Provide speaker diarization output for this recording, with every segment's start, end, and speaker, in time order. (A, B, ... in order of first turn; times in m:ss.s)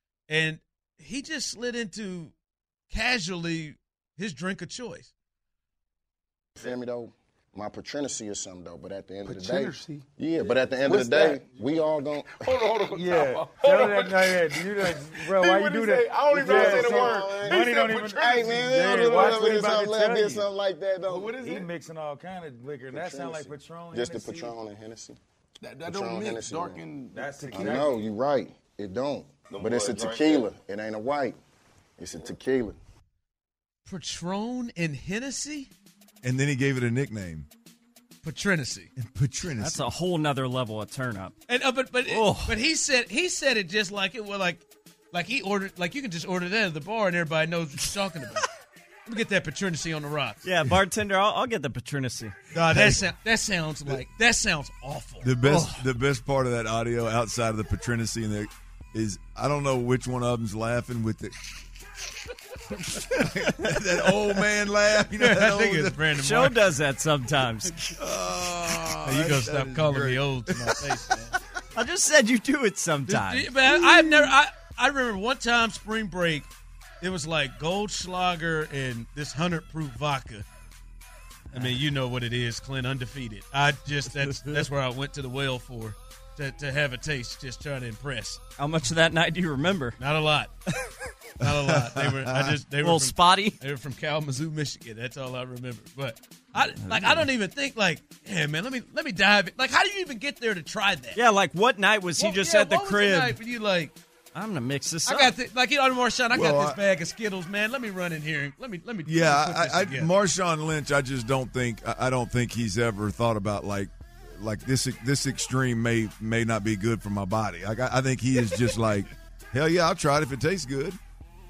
0:00.3-0:02.3 A
0:02.9-0:05.1 A
0:06.6-0:12.6 B
0:09.3-0:10.0 C
0:10.8-0:11.5 C
0:12.4-0:19.4 C
0:12.9-0:20.5 D
0:16.3-0:21.4 B
0:21.1-0:24.6 D
0:21.1-0:21.7 C
0:22.9-0:25.2 B
0:25.6-0:28.0 C
0:25.8-0:26.8 B
0:27.1-0:27.9 D
0:27.5-0:31.4 B
0:29.5-0:30.5 C
0:32.0-0:32.8 B
0:33.9-0:35.7 A
0:36.2-0:37.5 E
0:38.2-0:38.9 A
0:39.0-0:39.8 E
0:39.6-0:41.4 F
0:41.5-0:48.5 A
0:42.1-0:42.6 F
0:49.1-0:50.4 A
0:50.4-0:52.4 F
0:52.5-0:55.4 A
0:52.7-0:53.0 E
0:55.2-1:01.4 E
0:55.4-0:55.8 F
1:02.7-1:06.0 E
1:05.2-1:06.6 A
1:06.2-1:08.0 F
1:08.0-1:10.8 E
1:09.0-1:11.4 A
1:11.7-1:13.8 F
1:13.1-1:16.5 A
1:17.0-1:20.5 A
1:21.5-1:21.8 F
1:21.5-1:28.4 A
1:24.2-1:24.7 F
1:28.6-1:30.0 F
1:30.0-1:30.5 A
1:31.4-1:41.2 A
1:31.4-1:32.6 E
1:32.8-1:33.6 F
1:36.6-1:37.3 F
1:41.2-1:43.4 F
1:42.2-1:44.0 A
1:44.3-1:45.4 F
1:45.1-1:50.1 A
1:46.3-1:46.8 E
1:49.1-2:01.0 E